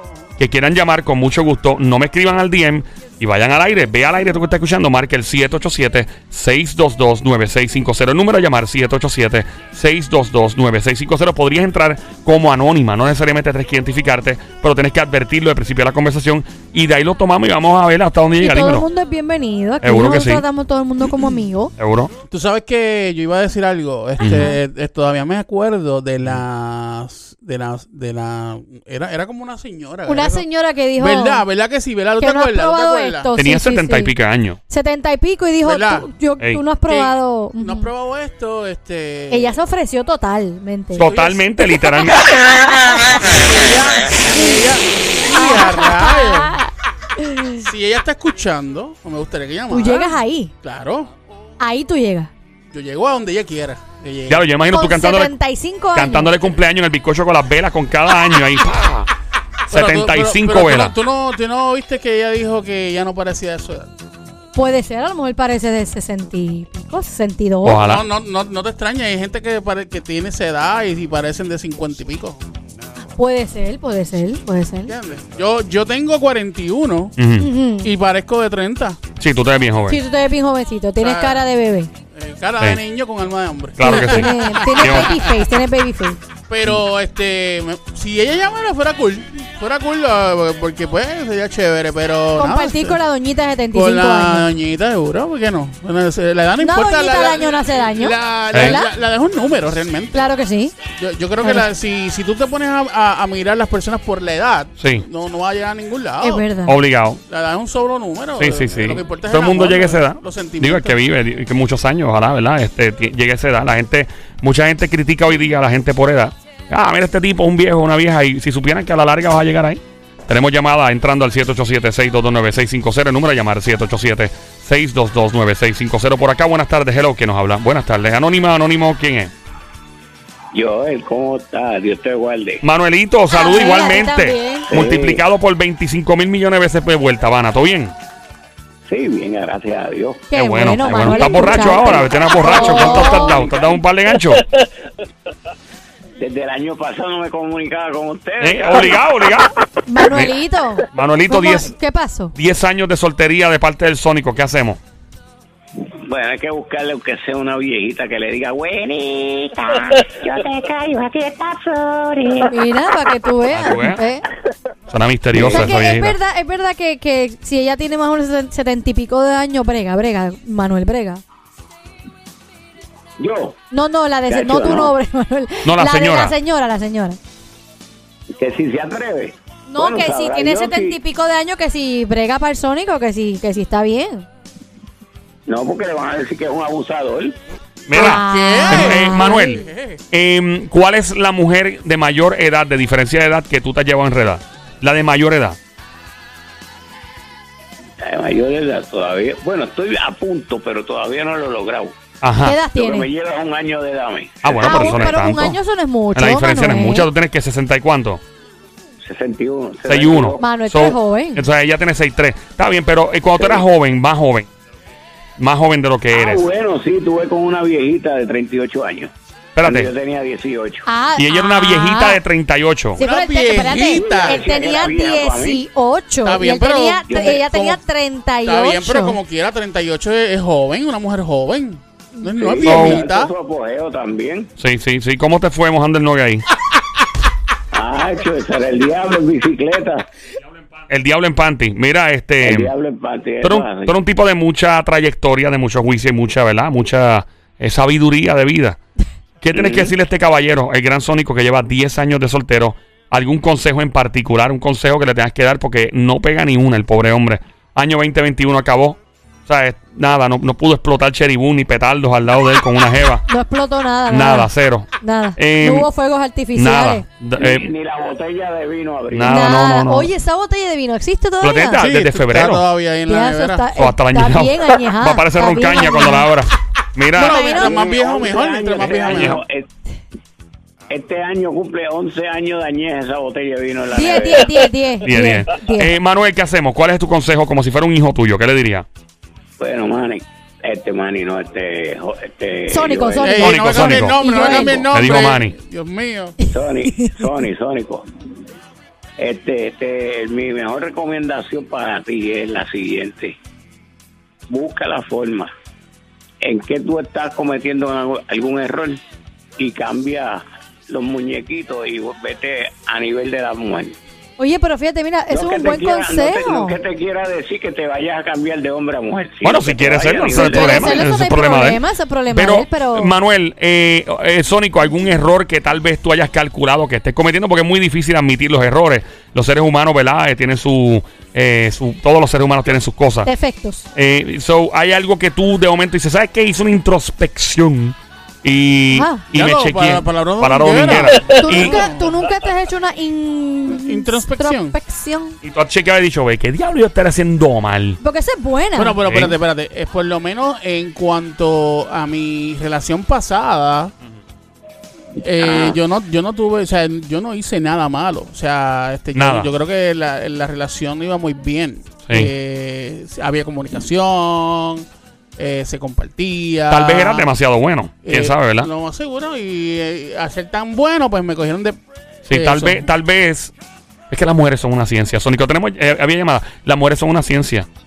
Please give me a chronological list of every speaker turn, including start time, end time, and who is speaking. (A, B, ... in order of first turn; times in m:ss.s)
0:00.4-0:18.9 A
0:18.4-0:21.7 B
0:19.8-0:20.4 A
0:21.8-0:22.1 A
0:22.3-0:33.3 C
0:24.2-0:24.5 A
0:24.2-0:24.6 B
0:30.1-0:31.4 B
0:32.2-0:34.1 B
0:33.4-0:34.6 A
0:34.7-0:37.9 B
0:35.6-0:36.1 C
0:36.9-0:39.6 C
0:39.3-0:41.1 B
0:40.9-0:42.4 A
0:41.1-0:41.4 C
0:43.3-0:46.6 C
0:44.3-0:44.6 B
0:45.3-0:47.6 B
0:47.6-0:51.1 C
0:49.7-0:50.5 B
0:51.6-0:52.3 B
0:52.7-0:54.5 C
0:54.3-0:55.3 A
0:54.7-0:56.5 B
0:56.0-0:59.1 A
0:59.7-1:01.0 A
0:59.7-1:03.9 C
1:04.6-1:07.8 B
1:07.6-1:08.1 A
1:07.8-1:12.4 C
1:13.2-1:14.9 B
1:14.9-1:17.2 C
1:17.2-1:17.5 A
1:17.4-1:17.9 B
1:17.8-1:19.0 C
1:19.2-1:20.0 A
1:19.9-1:21.9 B
1:21.0-1:21.5 C
1:22.1-1:25.6 C
1:23.8-1:25.2 A
1:23.8-1:26.2 B
1:26.5-1:33.0 C
1:32.4-1:34.5 B
1:33.7-1:46.5 C
1:36.6-1:38.9 B
1:38.5-1:38.8 A
1:40.1-1:40.7 B
1:41.4-1:41.7 B
1:44.8-1:45.0 A
1:46.2-1:46.8 B
1:46.7-1:47.2 A
1:47.3-1:51.0 C
1:48.4-2:09.3 A
2:10.5-2:12.6 D
2:12.6-2:17.9 A
2:13.3-2:14.7 B
2:14.7-2:15.2 D
2:18.8-2:20.2 D
2:20.3-2:23.4 B
2:20.3-2:24.4 A
2:20.8-2:23.8 D
2:26.2-2:29.0 D
2:28.4-2:29.5 A
2:29.9-2:32.3 B
2:30.1-2:30.4 A
2:30.9-2:31.7 A
2:32.3-2:34.8 A
2:36.0-2:39.0 D
2:38.8-2:42.6 E
2:39.9-2:40.4 D
2:42.5-2:44.2 B
2:43.5-2:44.0 A
2:44.9-2:46.2 A
2:45.4-2:45.7 D
2:45.5-2:51.2 B
2:53.2-2:53.6 D
2:53.7-2:57.2 B
2:54.3-2:54.9 D
2:55.6-2:56.4 A
2:58.4-3:01.0 D
2:59.7-3:04.3 B
3:05.5-3:07.4 D
3:07.9-3:15.6 A
3:07.9-3:09.6 B
3:07.9-3:10.0 C
3:18.0-3:21.9 D
3:22.2-3:22.6 A
3:22.4-3:23.1 B
3:22.7-3:25.2 D
3:24.4-3:25.6 A
3:24.6-3:27.1 B
3:26.2-3:28.2 A
3:29.0-3:30.4 D
3:29.8-3:34.5 A
3:30.4-3:31.4 B
3:33.4-3:33.6 D
3:35.4-3:36.4 A
3:36.1-3:40.9 D
3:39.6-3:39.9 A
3:40.9-3:42.2 B
3:41.2-3:43.0 A
3:43.0-3:49.2 B
3:43.0-3:44.5 C
3:43.9-3:45.6 D
3:46.2-3:47.8 C
3:47.1-3:47.4 D
3:48.4-3:53.3 C
3:52.3-3:54.5 D
3:52.6-3:53.0 A
3:54.6-3:56.5 A
3:57.7-4:00.1 D
4:00.9-4:02.7 A
4:02.4-4:04.0 D
4:03.4-4:08.8 A
4:09.4-4:23.3 A
4:09.6-4:09.9 D
4:23.3-4:24.5 B
4:24.1-4:25.9 A
4:25.0-4:27.0 B
4:26.5-4:27.7 A
4:27.4-4:29.4 D
4:29.1-4:30.1 A
4:29.3-4:31.8 B
4:31.4-4:32.6 A
4:31.8-4:33.7 C
4:33.1-4:36.3 B
4:33.8-4:37.4 A
4:37.1-4:39.4 C
4:37.2-4:37.8 B
4:37.5-4:39.7 D
4:39.1-4:39.4 A
4:40.9-4:44.7 D
4:43.9-4:45.9 B
4:45.0-4:48.9 A
4:49.6-4:53.5 D
4:52.7-4:54.9 B
4:53.2-4:56.4 C
4:53.4-4:55.5 A
4:56.4-4:57.4 B
4:56.5-4:58.1 D
4:59.2-5:03.4 D
5:04.5-5:05.5 D
5:06.4-5:09.0 D
5:09.6-5:14.0 D
5:14.4-5:16.8 B
5:15.3-5:21.0 D
5:19.4-5:33.3 A
5:20.3-5:23.1 B
5:33.2-5:33.9 B
5:34.0-5:41.8 A
5:38.9-5:39.2 B
5:39.3-5:42.2 C
5:41.3-5:45.4 B
5:43.7-5:44.8 C
5:45.4-5:48.0 A
5:48.0-5:49.0 B
5:48.8-5:53.9 C
5:49.1-5:49.4 A
5:55.2-6:07.3 C
5:55.4-5:55.8 D
5:59.2-5:59.5 A
6:06.7-6:08.7 A
6:08.0-6:11.8 C
6:12.3-6:13.5 A
6:12.3-6:12.9 C
6:14.1-6:17.7 A